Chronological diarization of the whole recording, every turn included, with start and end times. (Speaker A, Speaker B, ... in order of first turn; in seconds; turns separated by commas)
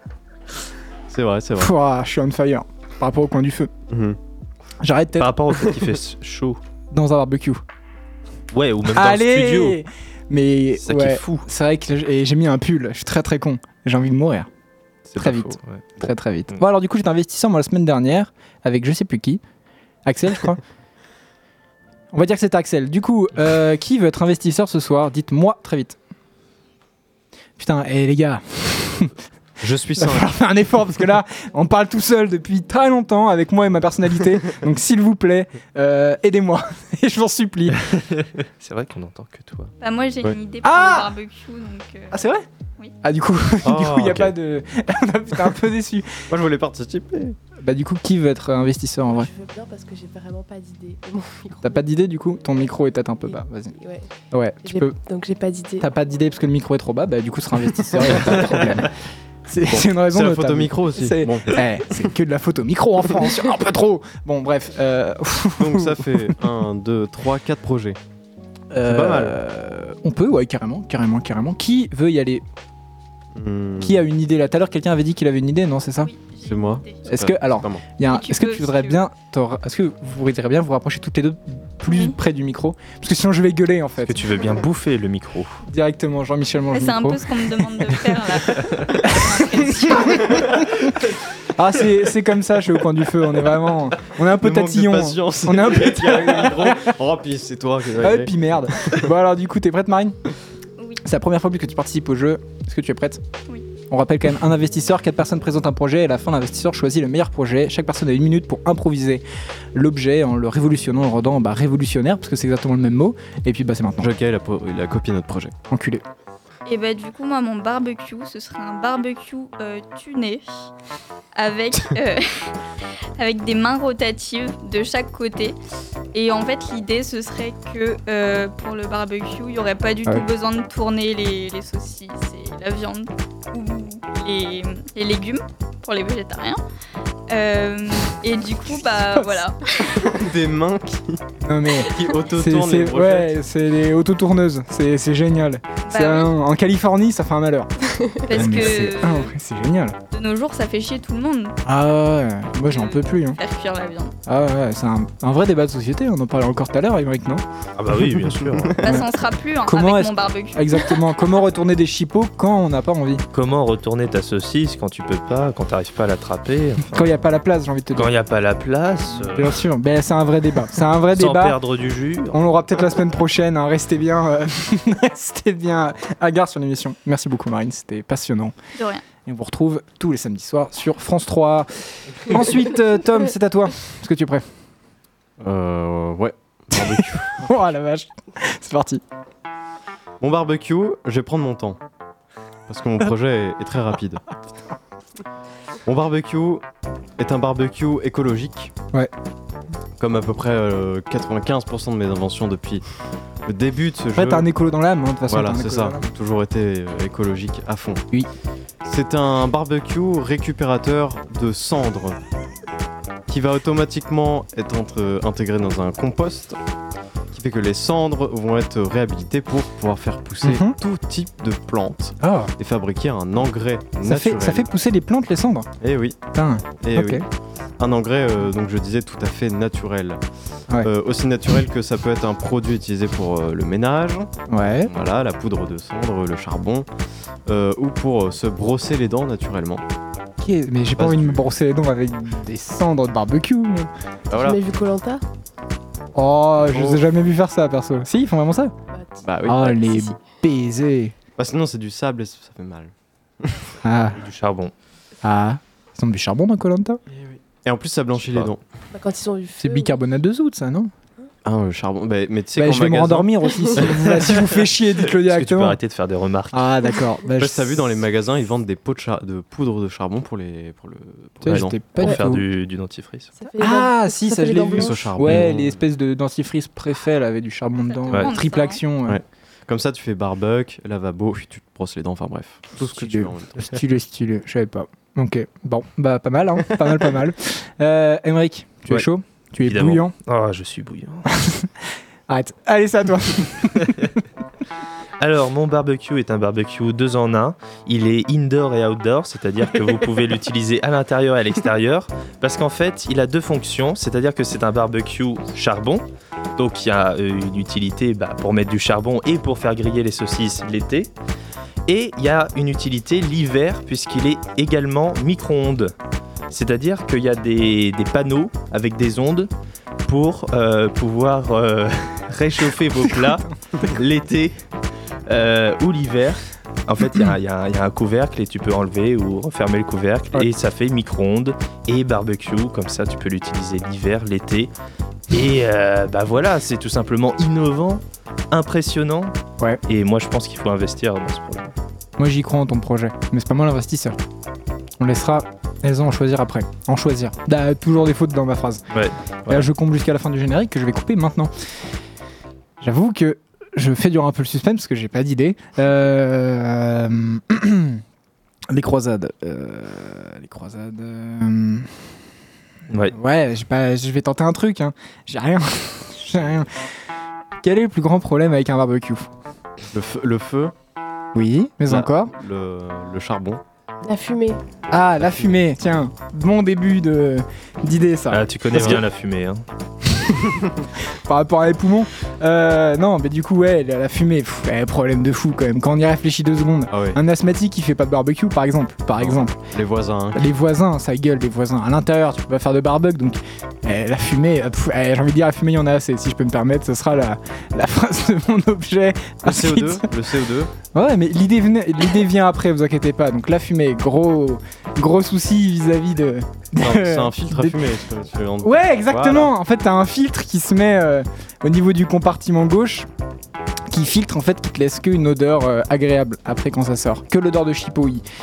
Speaker A: 1.1-1.7, Speaker B: 1.6-3.7, Speaker A: 3.9-4.2, Speaker B: 4.8-5.4, Speaker C: 5.2-6.6, Speaker B: 6.9-7.6, Speaker C: 8.5-9.8, Speaker B: 8.9-14.5, Speaker C: 10.8-11.4, Speaker A: 15.1-15.6, Speaker B: 15.2-19.4, Speaker C: 15.6-16.1, Speaker B: 20.1-20.6, Speaker B: 22.1-26.0, Speaker B: 27.6-29.1, Speaker A: 29.6-30.3, Speaker B: 30.0-37.8, Speaker C: 37.9-39.7, Speaker D: 39.8-42.2, Speaker B: 40.6-41.1, Speaker B: 42.1-42.5, Speaker B: 43.0-46.3, Speaker A: 43.6-44.4, Speaker A: 46.3-47.4, Speaker B: 47.6-49.3, Speaker E: 49.1-51.8, Speaker B: 51.6-53.7, Speaker E: 53.3-54.1, Speaker B: 54.3-55.0, Speaker E: 54.6-55.9, Speaker B: 55.8-58.9, Speaker B: 59.5-66.4, Speaker A: 59.7-61.6, Speaker A: 65.6-68.0, Speaker B: 68.7-72.4, Speaker A: 68.8-69.4, Speaker A: 73.3-74.0, Speaker B: 73.8-76.1, Speaker D: 76.0-77.0, Speaker A: 76.4-77.8, Speaker B: 77.1-84.5, Speaker D: 78.0-79.0, Speaker D: 81.9-82.2, Speaker C: 84.1-85.6, Speaker B: 85.7-88.4, Speaker D: 86.7-90.4, Speaker B: 89.1-90.8, Speaker A: 90.1-90.6, Speaker B: 91.5-96.9, Speaker A: 94.2-99.1, Speaker B: 98.0-100.2, Speaker B: 101.0-103.2, Speaker B: 103.9-109.2, Speaker B: 109.7-114.1, Speaker A: 114.0-115.5, Speaker B: 115.7-116.0, Speaker D: 116.7-120.4, Speaker D: 121.4-122.5, Speaker D: 123.2-125.6, Speaker D: 126.1-136.6, Speaker D: 137.3-140.0, Speaker B: 138.9-139.4, Speaker A: 139.8-141.2, Speaker B: 141.4-147.7, Speaker A: 141.8-143.3, Speaker D: 145.9-146.3, Speaker D: 148.3-149.3, Speaker B: 148.3-150.0, Speaker D: 150.1-151.6, Speaker B: 151.6-153.4, Speaker D: 152.7-154.1, Speaker B: 154.3-157.4, Speaker C: 157.8-158.8, Speaker A: 158.1-159.1, Speaker D: 158.8-161.1, Speaker B: 158.8-159.1, Speaker B: 159.6-163.2, Speaker C: 163.3-167.1, Speaker B: 166.9-168.1, Speaker C: 167.9-169.7, Speaker B: 169.2-171.6, Speaker C: 171.1-172.4, Speaker B: 172.3-178.6, Speaker D: 178.8-179.0, Speaker B: 179.2-184.5, Speaker A: 185.4-187.5, Speaker B: 187.4-189.0, Speaker A: 190.2-191.8, Speaker A: 192.7-194.2, Speaker A: 195.8-196.7, Speaker A: 197.2-198.7, Speaker A: 200.0-202.8, Speaker A: 203.4-204.5, Speaker B: 204.2-206.1, Speaker A: 205.3-208.0, Speaker A: 208.8-212.2, Speaker A: 213.3-216.6, Speaker A: 217.3-224.7, Speaker B: 220.4-220.8, Speaker B: 222.2-222.5, Speaker B: 224.0-225.7, Speaker A: 225.8-226.2, Speaker B: 226.3-227.2, Speaker A: 226.7-227.3, Speaker A: 227.8-230.2, Speaker A: 230.8-234.3, Speaker B: 234.5-234.9, Speaker A: 234.8-236.9, Speaker A: 237.5-239.8, Speaker B: 240.4-243.9, Speaker A: 241.0-241.5, Speaker A: 244.3-244.6, Speaker E: 244.3-245.2, Speaker B: 246.2-248.7, Speaker A: 246.7-247.1, Speaker E: 248.9-250.2, Speaker A: 249.2-249.8, Speaker B: 249.4-251.1, Speaker A: 251.4-253.7, Speaker B: 253.8-254.2, Speaker C: 254.2-254.7, Speaker B: 255.2-257.0, Speaker A: 257.1-258.6, Speaker C: 258.2-258.5, Speaker E: 258.9-259.9, Speaker B: 259.6-260.9, Speaker A: 261.4-264.3, Speaker B: 262.6-265.8, Speaker C: 265.2-266.6, Speaker B: 266.5-267.8, Speaker A: 267.4-271.8, Speaker B: 271.4-272.4, Speaker C: 271.5-273.3, Speaker E: 273.4-275.1, Speaker B: 273.6-279.2, Speaker A: 274.7-275.8, Speaker D: 277.9-278.8, Speaker A: 279.1-283.8, Speaker B: 282.8-290.1, Speaker C: 289.6-291.3, Speaker B: 291.4-291.7, Speaker B: 292.3-294.1, Speaker C: 295.2-306.1, Speaker C: 306.6-311.1, Speaker C: 311.9-315.9, Speaker C: 316.5-319.5, Speaker C: 320.1-324.6, Speaker C: 325.3-334.7, Speaker C: 335.3-339.4, Speaker C: 339.9-341.7, Speaker B: 342.2-344.2, Speaker B: 345.0-348.8, Speaker C: 348.9-349.7, Speaker B: 349.5-351.5, Speaker B: 352.8-358.0, Speaker B: 358.7-361.9, Speaker B: 363.1-366.7, Speaker B: 367.6-369.3, Speaker A: 369.9-370.7, Speaker B: 371.4-372.3, Speaker A: 371.9-373.6, Speaker E: 374.0-374.6, Speaker B: 374.9-378.9, Speaker A: 375.2-375.5, Speaker C: 378.3-379.6, Speaker A: 378.7-379.0, Speaker B: 381.1-389.6, Speaker A: 386.9-387.2, Speaker A: 389.2-390.4, Speaker B: 390.3-400.1, Speaker A: 399.4-400.7, Speaker B: 400.9-407.8, Speaker A: 406.8-409.6, Speaker B: 408.6-413.1, Speaker B: 413.9-418.2